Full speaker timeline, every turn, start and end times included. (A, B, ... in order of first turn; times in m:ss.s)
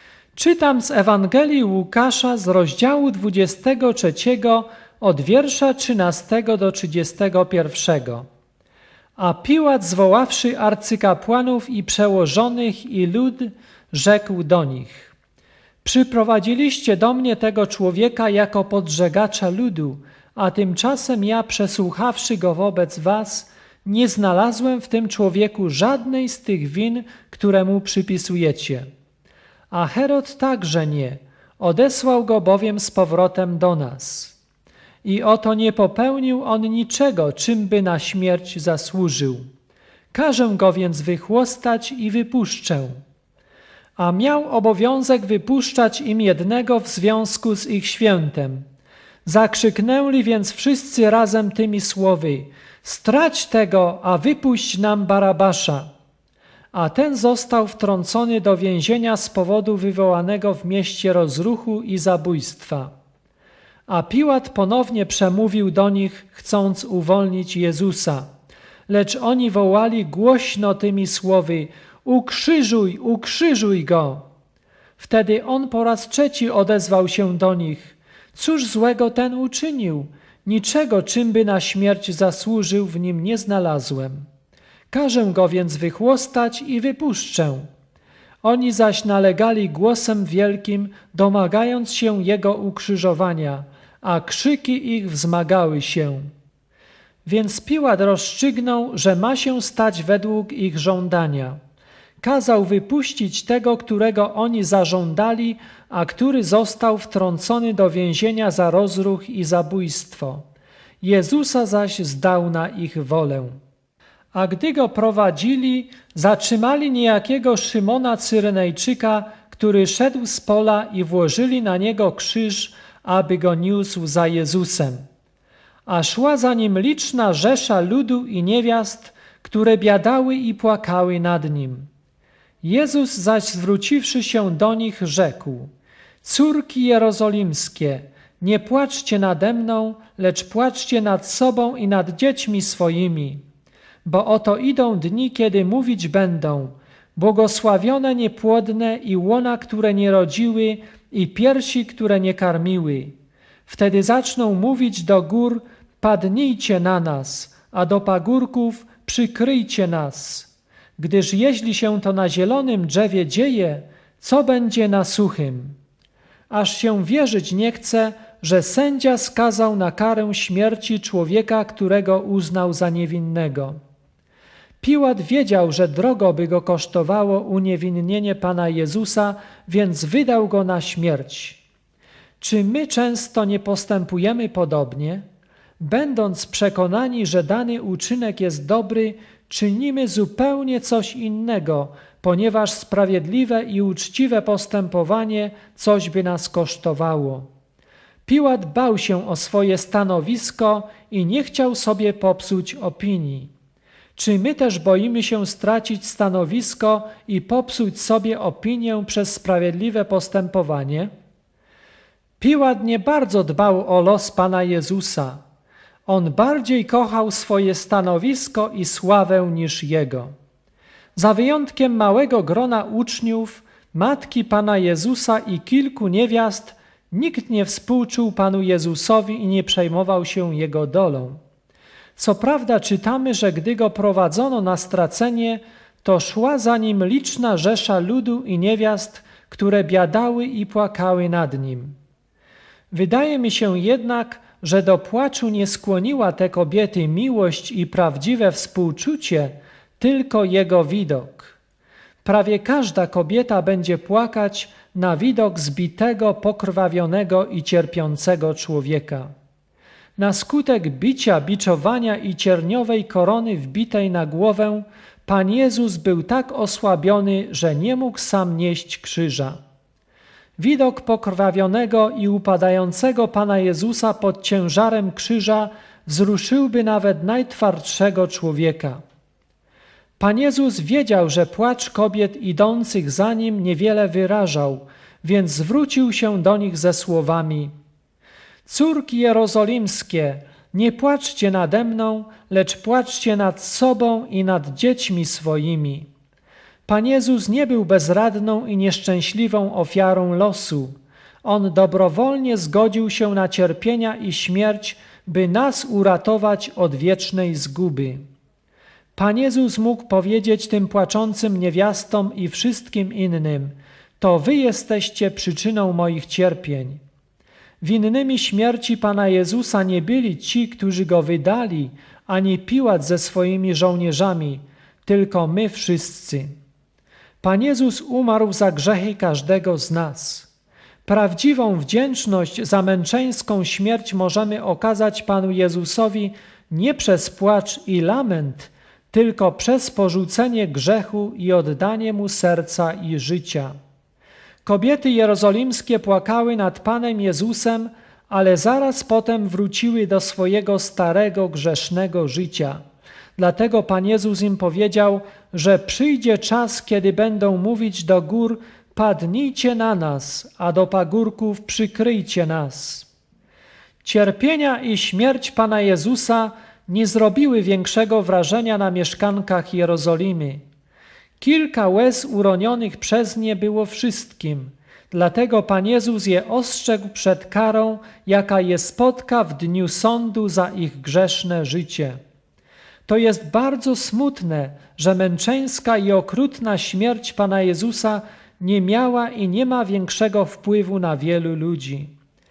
0:00.4-0:08.2 A
0:09.2-0:15.1 A
0:15.8-0:28.8 A
0:29.7-0:34.4 A
0:35.0-0:39.4 A
0:40.1-0:43.0 A
0:44.0-0:48.6 A
0:49.2-0:55.9 A
0:56.7-1:02.9 A
1:03.9-1:08.3 A
1:08.9-1:14.2 A
1:15.0-1:24.2 A
1:24.9-1:27.7 A
1:28.4-1:36.3 A
1:37.2-1:41.6 A
1:42.2-1:50.4 A
1:51.0-1:53.6 A
1:54.3-2:05.0 A
2:05.9-2:11.9 A
2:12.6-2:15.7 A
2:16.2-2:23.4 A
2:24.0-2:33.1 A
2:33.6-2:45.8 A
2:46.5-2:53.8 A
2:54.8-3:01.6 A
3:02.4-3:05.2 A
3:05.8-3:17.5 A
3:18.2-3:23.5 A
3:24.2-3:31.1 A
3:32.4-3:35.4 A
3:36.1-3:40.3 A
3:41.2-3:51.4 A
3:52.2-4:02.0 A
4:02.9-4:11.6 A
4:12.2-4:19.3 A
4:20.2-4:29.6 A
4:30.6-4:39.0 A
4:40.2-4:47.7 A
4:48.6-4:56.1 A
4:56.9-5:00.9 A
5:01.4-5:08.2 A
5:09.2-5:17.0 A
5:17.8-5:26.6 A
5:27.4-5:30.5 A
5:31.0-5:43.7 A
5:44.6-5:52.8 A
5:53.4-6:03.1 A
6:04.0-6:10.6 A
6:11.4-6:22.2 A
6:23.1-6:32.1 A